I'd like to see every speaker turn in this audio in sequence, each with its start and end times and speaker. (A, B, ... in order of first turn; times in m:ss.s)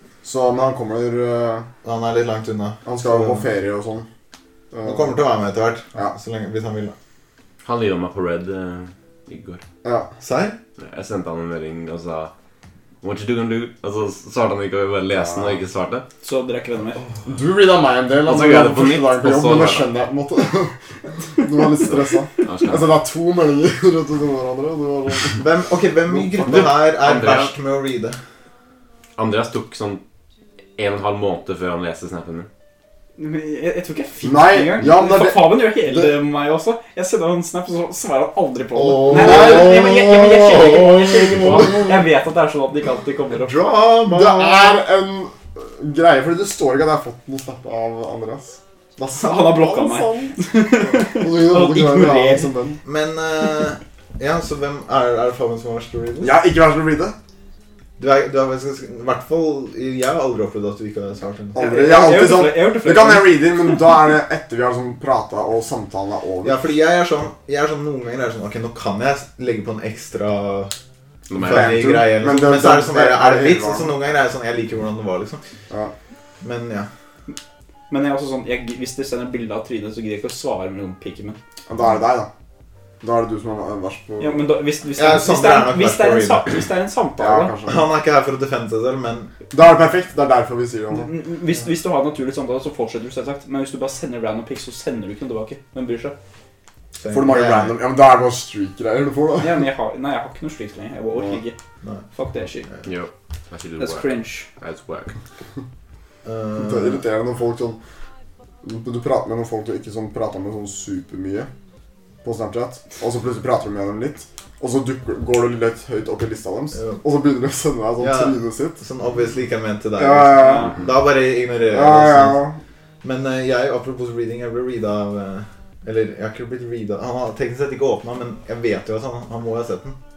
0:00.2-0:01.7 A
0:01.8-0:03.4 B
0:02.8-0:04.1 A
0:04.7-0:05.1 A
0:04.8-0:06.9 B
0:07.6-0:09.6 C
0:09.8-0:10.1 A
0:10.2-0:10.6 B
0:10.8-0:12.3 C
0:13.0-0:16.1 C
0:15.1-0:15.6 A
0:16.2-0:17.0 D
0:17.2-0:20.7 A
0:18.2-0:19.9 C
0:21.4-0:25.4 A
0:22.4-0:23.0 C
0:25.4-0:28.2 B
0:26.1-0:26.7 A
0:26.4-0:27.5 C
0:29.2-0:30.0 C
0:30.8-0:32.5 C
0:33.2-0:43.6 D
0:34.2-0:36.1 A
0:38.8-0:41.9 A
0:43.4-0:44.8 B
0:44.0-0:52.8 A
0:49.2-0:52.5 D
0:52.8-0:56.4 B
0:56.2-0:57.2 A
0:58.0-1:01.7 B
1:01.6-1:06.6 A
1:01.6-1:03.5 D
1:06.4-1:10.7 B
1:11.3-1:11.9 C
1:11.4-1:15.4 B
1:11.4-1:13.9 A
1:16.4-1:16.9 B
1:17.9-1:21.4 D
1:21.7-1:22.3 A
1:23.0-1:24.4 A
1:24.2-1:27.5 D
1:25.0-1:26.6 B
1:27.2-1:27.8 A
1:27.7-1:29.3 B
1:29.5-1:31.1 A
1:30.9-1:36.2 D
1:37.0-1:37.8 B
1:37.1-1:39.6 A
1:39.4-1:41.6 D
1:42.1-1:42.7 D
1:42.8-1:45.2 C
1:43.8-1:44.5 D
1:46.2-1:47.0 B
1:46.6-1:47.8 A
1:48.6-1:51.5 A
1:52.2-1:58.8 A
1:58.0-2:02.4 B
2:00.0-2:00.7 A
2:00.4-2:00.7 D
2:01.7-2:02.6 A
2:03.0-2:10.0 B